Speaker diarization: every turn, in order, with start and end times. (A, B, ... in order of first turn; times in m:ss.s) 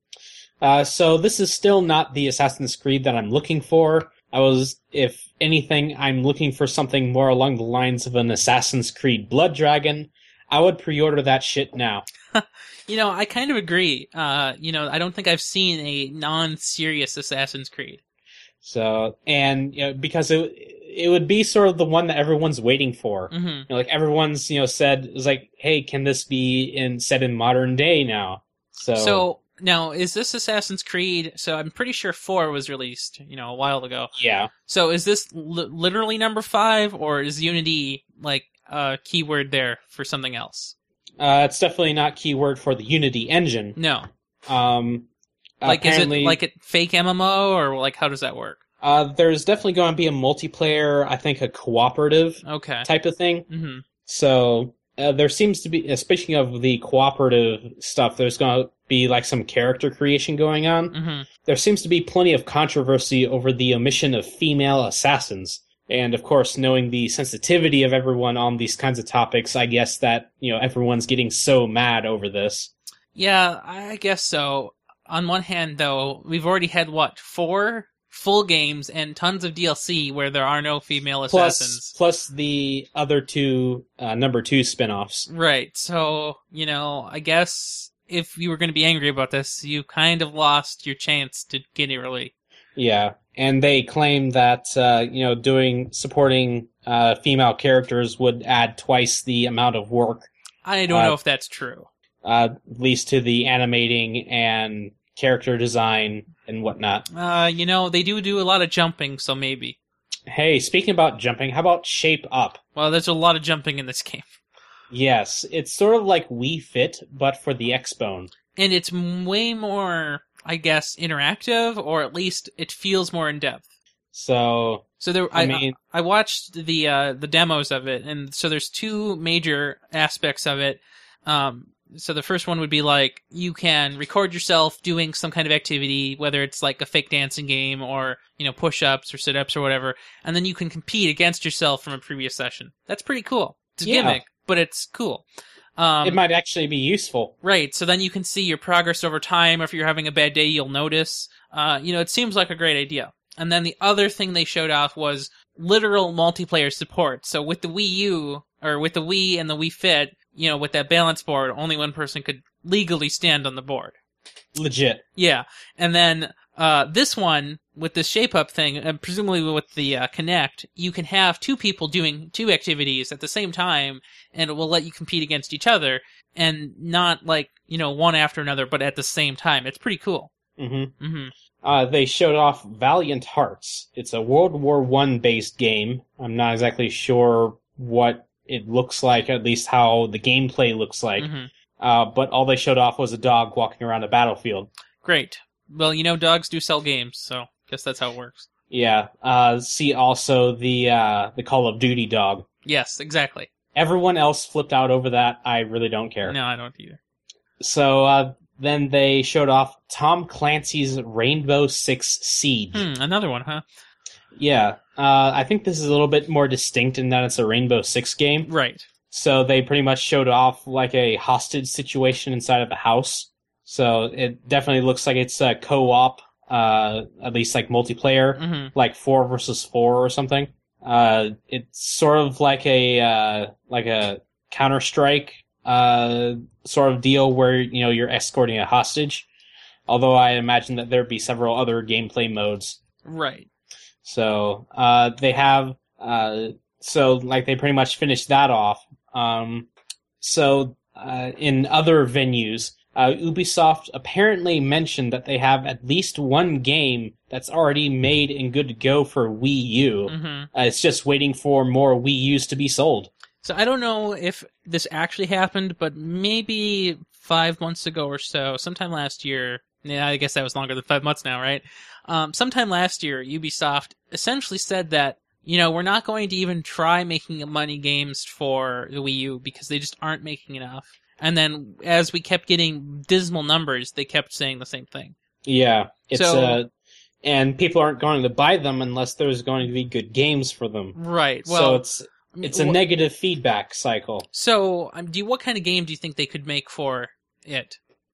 0:00.6-0:12.1 A
0:12.3-0:18.0 B
0:18.6-0:29.2 A
0:23.3-0:23.7 B
0:29.0-0:34.1 B
0:34.2-0:34.5 A
0:34.7-0:40.7 B
0:41.2-0:43.8 A
0:43.8-0:44.1 B
0:44.5-0:45.1 A
0:45.6-0:46.4 A
0:45.6-0:48.6 B
0:48.8-0:53.5 A
0:52.4-0:52.9 B
0:53.5-0:53.8 B
0:54.0-1:12.7 A
1:00.9-1:01.3 B
1:13.2-1:21.9 B
1:21.3-1:25.3 A
1:25.3-1:32.3 B
1:32.8-1:40.3 A
1:40.6-1:41.9 B
1:40.9-1:41.2 A
1:42.2-1:47.1 A
1:47.1-1:49.8 B
1:50.3-1:52.6 A
1:52.8-1:54.3 B
1:54.9-1:58.3 A
1:58.6-2:03.7 B
2:04.1-2:05.8 A
2:05.0-2:25.3 B
2:23.8-2:24.2 A
2:25.8-2:26.2 B
2:26.0-2:27.4 A
2:27.4-2:44.0 B
2:44.6-2:45.0 A
2:45.2-3:00.3 B
3:00.6-3:00.9 A
3:01.0-3:01.3 B
3:01.6-3:11.3 A
3:11.2-3:11.5 B
3:11.8-3:14.7 A
3:15.0-3:18.5 B
3:18.7-3:22.5 A
3:22.6-3:23.5 B
3:23.8-3:26.4 A
3:26.2-3:27.0 B
3:27.6-3:32.9 A
3:32.7-3:33.6 B
3:34.4-3:38.5 A
3:38.5-3:38.9 B
3:39.1-3:59.3 A
3:48.4-3:48.7 B
3:59.9-4:02.8 A
4:03.0-4:03.5 B
4:04.0-4:09.7 A
4:10.2-4:23.1 A
4:20.1-4:20.5 B
4:23.4-4:45.2 B
4:45.4-4:46.7 A
4:46.1-4:46.6 B
4:47.2-4:54.3 A
4:51.0-4:52.8 B
4:54.3-4:57.8 B